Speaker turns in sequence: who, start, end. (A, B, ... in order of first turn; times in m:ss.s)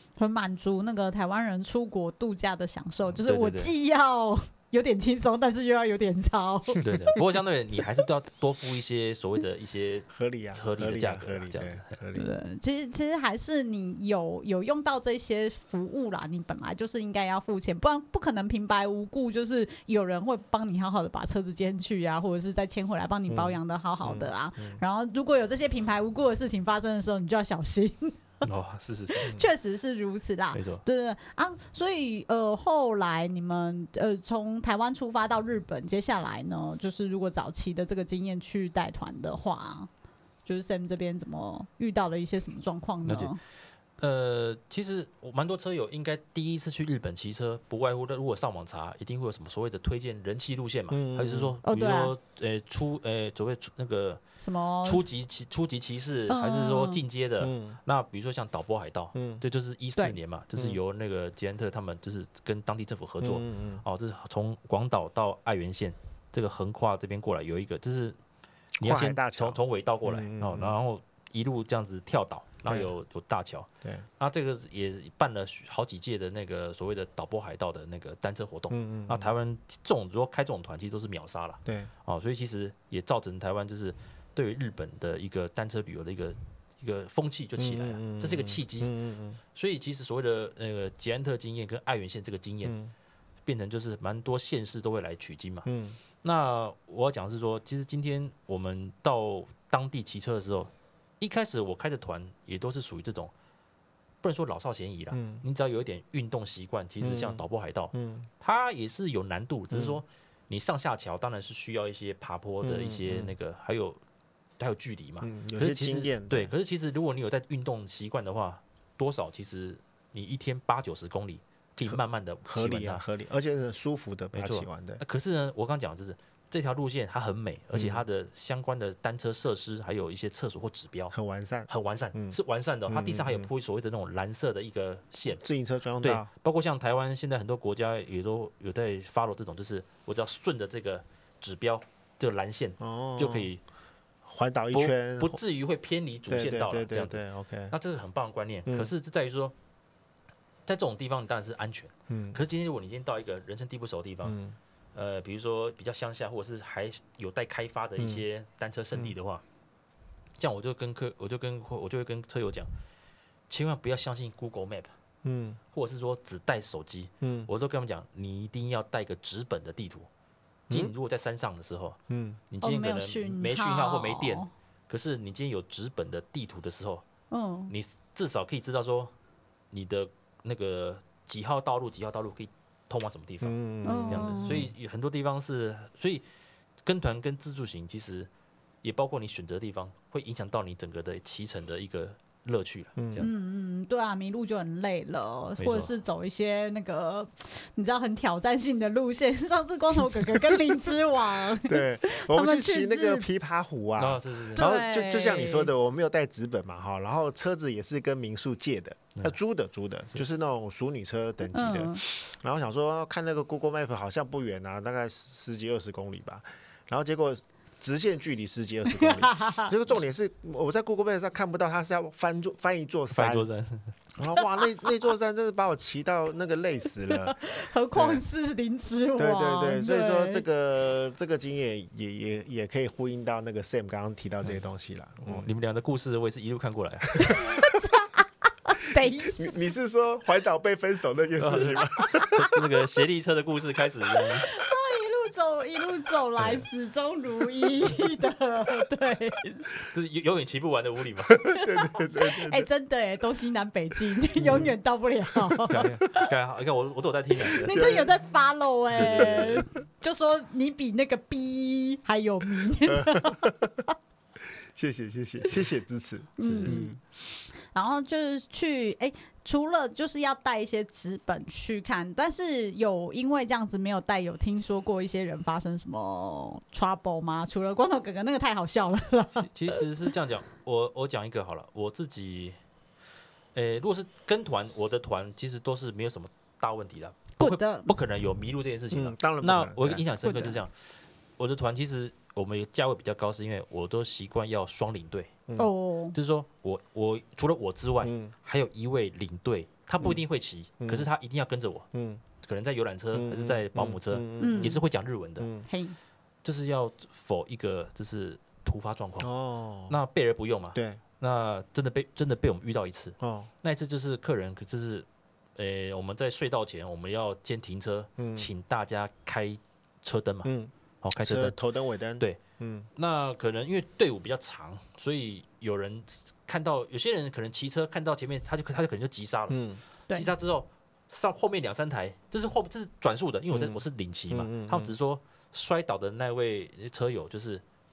0:00.2-0:06.8 A
0:03.2-0:03.7 B
0:06.8-0:12.0 B
0:10.1-0:12.3 C
0:12.1-0:28.4 A
0:23.3-0:24.8 C
0:28.4-0:29.3 B
0:29.1-0:39.9 A
0:30.5-0:30.8 B
0:40.4-0:43.4 A
0:43.0-0:43.3 B
0:44.0-0:54.2 B
0:50.9-0:51.5 C
0:51.6-0:52.1 A
0:54.4-0:55.0 A
0:54.8-1:08.2 B
0:56.3-0:57.0 A
0:57.4-0:57.8 C
0:59.1-0:59.4 C
1:03.2-1:03.8 C
1:08.8-1:10.7 C
1:08.8-1:28.9 B
1:12.6-1:12.9 C
1:18.7-1:19.3 C
1:21.6-1:21.9 C
1:27.6-1:29.4 C
1:29.5-1:32.8 B
1:32.6-1:32.9 C
1:33.4-1:35.7 B
1:35.6-1:36.0 C
1:36.2-1:43.3 B
1:44.2-1:54.0 B
1:45.1-1:45.4 C
1:47.0-1:48.3 C
1:49.7-1:50.0 C
1:52.6-1:53.3 C
1:54.6-2:03.0 B
1:55.2-1:56.5 C
2:01.8-2:05.0 C
2:04.3-2:11.1 B
2:07.7-2:08.0 C
2:11.1-2:13.5 C
2:11.7-2:15.4 B
2:15.4-2:16.3 C
2:16.0-2:23.6 B
2:22.8-2:23.5 C
2:24.2-2:25.4 C
2:24.7-2:29.5 B
2:26.3-2:27.7 C
2:28.6-2:28.9 C
2:30.6-2:34.4 B
2:32.1-2:32.4 C
2:34.2-2:34.6 C
2:34.9-2:39.4 B
2:38.0-2:38.2 C
2:40.4-2:42.7 B
2:43.5-2:44.9 B
2:45.2-2:45.6 C
2:45.7-2:50.1 B
2:47.2-2:47.5 C
2:50.7-2:50.9 C
2:50.7-2:52.0 B
2:52.1-2:52.4 C
2:52.5-2:57.0 B
2:52.6-2:54.5 A
2:57.3-2:57.7 A
2:57.7-2:59.1 B
2:59.7-3:06.2 B
3:03.4-3:04.7 C
3:03.8-3:04.7 A
3:06.8-3:08.3 B
3:08.8-3:13.3 B
3:13.0-3:13.3 C
3:13.2-3:23.3 A
3:15.6-3:15.9 B
3:21.6-3:43.4 C
3:24.0-3:24.7 B
3:24.6-3:25.7 A
3:31.5-3:32.0 A
3:38.9-3:39.7 A
3:43.1-3:43.9 B
3:44.2-3:48.2 C
3:47.1-3:50.4 A
3:49.2-3:55.5 C
3:55.2-3:57.4 B
3:57.2-3:57.8 C
3:57.2-3:59.6 A
3:59.2-4:02.6 C
4:01.4-4:04.5 B
4:04.5-4:09.6 A
4:06.4-4:06.6 C
4:09.9-4:11.4 B
4:11.3-4:12.7 C
4:11.5-4:16.3 A
4:14.4-4:14.7 C
4:15.3-4:15.8 C
4:15.7-4:17.8 B
4:17.4-4:23.9 A
4:17.7-4:18.1 C
4:18.9-4:19.6 B
4:19.0-4:19.6 C
4:22.8-4:23.8 C
4:24.5-4:27.0 C
4:26.4-4:26.9 A
4:26.4-4:26.9 B
4:27.7-4:39.8 A
4:39.4-4:42.6 B
4:43.5-4:50.7 B
4:47.4-4:47.9 A
4:48.9-4:50.0 C
4:50.2-4:50.6 A
4:51.4-4:55.3 B
4:55.6-4:56.2 A
4:56.1-5:01.8 B
4:58.0-4:58.3 C
5:00.8-5:01.1 C
5:01.9-5:02.2 C
5:02.4-5:05.5 B
5:03.1-5:04.8 C
5:04.4-5:04.8 A
5:05.4-5:05.6 C
5:05.7-5:06.0 A
5:06.4-5:09.3 B
5:09.2-5:10.0 C
5:09.9-5:20.5 B
5:10.7-5:11.0 C
5:13.2-5:13.5 C
5:18.2-5:18.5 C
5:20.4-5:22.9 C
5:21.0-5:21.6 B
5:22.9-5:29.6 B
5:29.5-5:29.8 C
5:30.1-5:37.6 B
5:33.5-5:34.9 C